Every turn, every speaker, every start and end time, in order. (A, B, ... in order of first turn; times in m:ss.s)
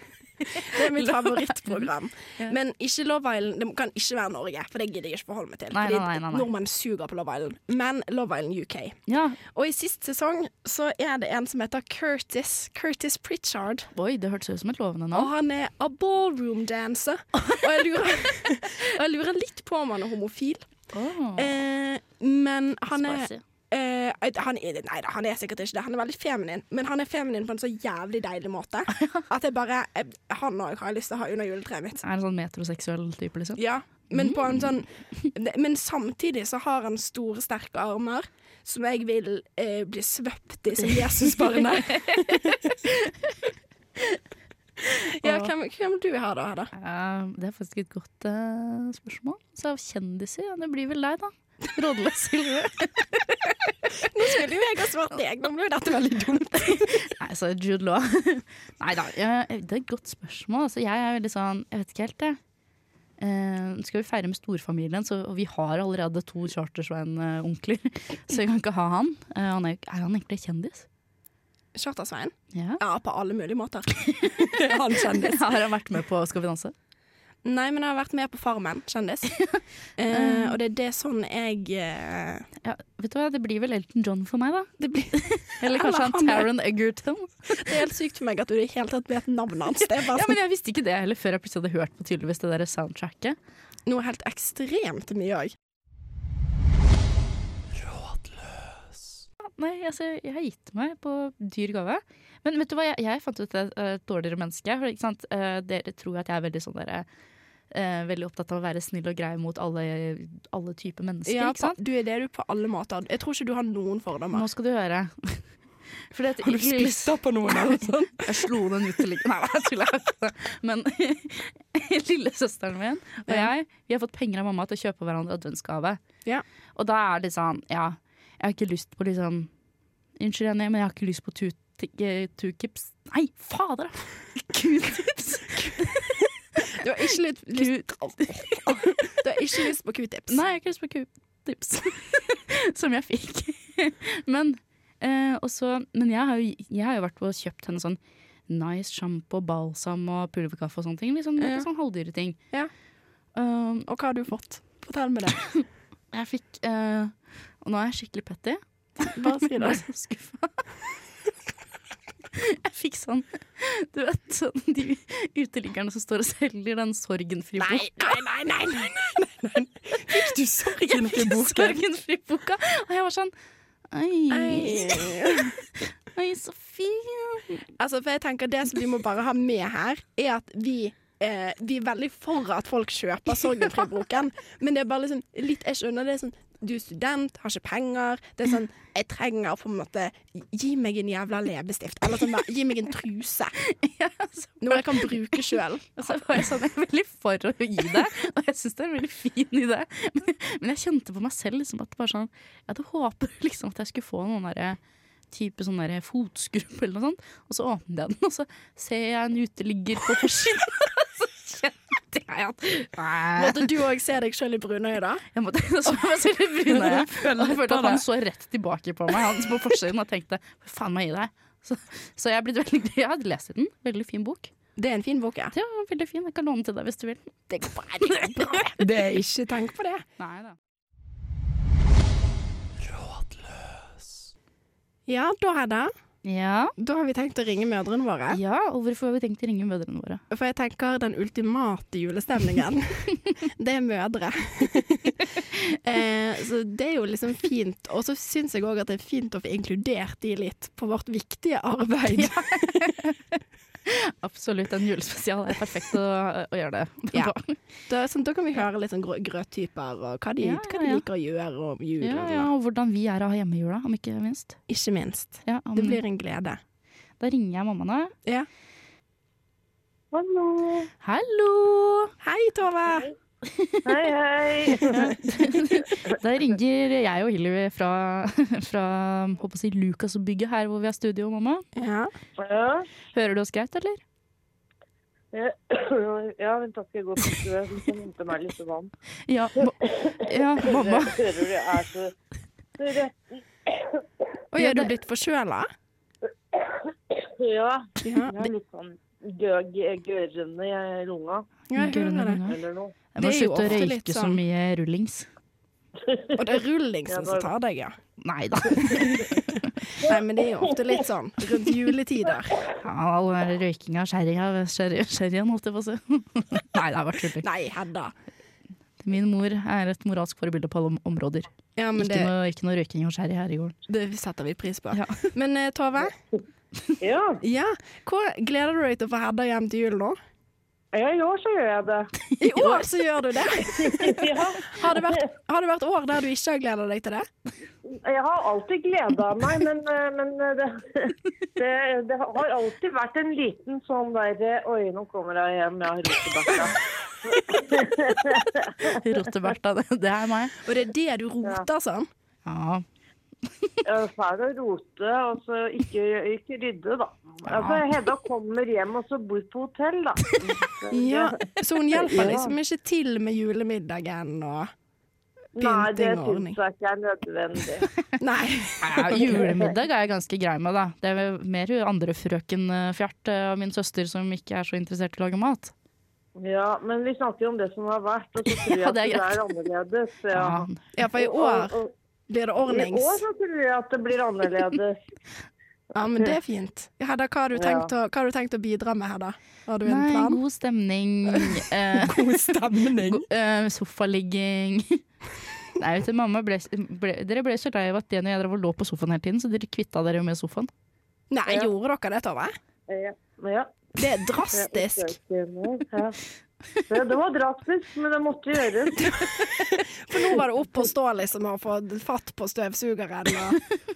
0:00.5-0:13.9 A
0:00.6-0:02.5 B
0:05.7-0:06.5 B
0:09.1-0:09.4 B
0:13.9-0:15.3 B
0:15.1-0:20.7 A
0:20.9-0:21.5 B
0:21.4-0:32.0 A
0:22.9-0:23.4 B
0:32.0-0:33.6 B
0:33.6-0:41.6 A
0:34.1-0:34.6 B
0:40.8-0:43.1 B
0:41.2-0:42.2 C
0:44.9-0:46.7 A
0:45.2-0:45.5 B
0:46.7-0:53.7 B
0:54.0-0:57.0 A
0:56.6-1:02.4 B
1:03.2-1:10.8 B
1:11.7-1:14.4 A
1:12.5-1:12.8 B
1:14.1-1:16.7 B
1:14.5-1:15.4 C
1:17.4-1:19.4 A
1:19.3-1:20.6 B
1:20.0-1:22.5 A
1:22.6-1:27.7 B
1:24.8-1:26.5 A
1:27.6-1:30.4 A
1:29.8-1:33.4 B
1:33.8-1:35.5 A
1:37.8-1:38.4 C
1:39.6-1:47.0 B
1:47.7-1:51.8 B
1:51.2-1:54.5 A
1:54.3-1:55.5 B
1:56.1-2:06.0 B
1:56.4-1:58.4 C
2:06.8-2:09.5 B
2:10.2-2:16.2 B
2:16.8-2:20.4 A
2:17.5-2:18.9 B
2:20.3-2:32.4 B
2:31.4-2:31.7 A
2:33.4-2:33.9 B
2:33.9-2:35.4 A
2:35.5-2:40.6 B
2:39.1-2:39.8 A
2:42.3-2:48.2 B
2:47.6-2:49.5 A
2:49.6-2:51.8 C
2:50.1-2:53.3 B
2:53.9-2:57.6 B
2:54.3-2:55.5 A
2:57.8-3:13.6 A
3:13.6-3:24.8 B
3:14.6-3:16.4 A
3:25.3-3:33.7 B
3:33.4-3:35.2 A
3:35.3-3:44.5 B
3:36.7-3:38.0 C
3:44.8-3:45.5 A
3:45.5-3:48.6 B
3:47.5-3:48.8 A
3:48.8-3:49.5 C
3:49.5-3:50.0 A
3:50.2-3:50.6 B
3:52.8-3:53.5 C
3:55.1-3:55.9 A
3:56.2-3:56.7 B
3:56.8-3:58.4 A
3:58.3-4:00.2 B
4:00.3-4:12.4 A
4:12.1-4:17.6 B
4:17.9-4:22.5 A
4:20.4-4:21.0 B
4:22.0-4:24.6 B
4:24.7-4:26.6 A
4:25.4-4:26.0 B
4:27.2-4:28.1 B
4:30.1-4:30.9 D
4:31.0-4:32.1 B
4:32.2-4:33.1 A
4:33.4-4:33.9 B
4:33.8-4:35.1 D
4:34.8-4:41.6 B
4:41.8-4:42.1 A
4:42.4-4:42.9 D
4:43.1-4:44.0 B
4:45.3-4:48.9 D
4:49.3-4:51.2 B
4:49.8-4:52.1 D
4:52.8-4:54.0 D
4:54.5-4:55.7 A
4:54.6-4:54.9 B
4:56.5-5:01.5 D
4:58.0-4:58.4 A
5:01.7-5:02.4 A
5:01.7-5:02.6 B
5:02.4-5:02.9 D
5:03.1-5:05.3 B
5:03.2-5:04.4 A
5:06.0-5:06.4 D
5:06.4-5:08.0 A
5:07.1-5:07.5 D
5:08.2-5:09.8 B
5:09.8-5:12.6 A
5:12.8-5:17.4 B
5:17.4-5:18.1 A
5:19.0-5:23.7 B
5:21.8-5:22.3 A
5:23.9-5:26.1 A
5:24.9-5:25.3 B
5:27.0-5:27.4 D
5:27.4-5:30.2 A
5:30.9-5:32.1 D
5:32.3-5:32.8 B
5:32.4-5:37.2 A
5:33.6-5:35.2 D
5:37.8-5:49.0 D
5:48.9-5:50.6 B
5:50.6-5:52.1 A
5:52.4-5:52.8 B
5:53.8-6:02.6 D
5:57.4-5:57.9 B
6:00.9-6:04.7 A
6:05.6-6:07.9 D
6:05.6-6:06.6 A
6:08.2-6:09.5 A
6:08.8-6:15.7 B
6:16.4-6:21.9 D
6:18.5-6:19.4 B
6:20.3-6:20.8 B
6:21.0-6:21.8 A
6:22.3-6:23.2 A
6:22.6-6:25.0 D
6:25.9-6:30.4 A
6:26.0-6:26.3 D
6:27.5-6:27.9 D
6:29.8-6:35.0 B
6:32.0-6:33.2 C
6:35.8-6:40.7 B
6:41.3-6:42.5 A
6:41.4-6:41.7 D
6:42.9-6:43.8 D
6:44.0-6:45.2 A
6:44.5-6:46.2 D
6:46.9-6:49.2 D
6:49.0-6:53.6 A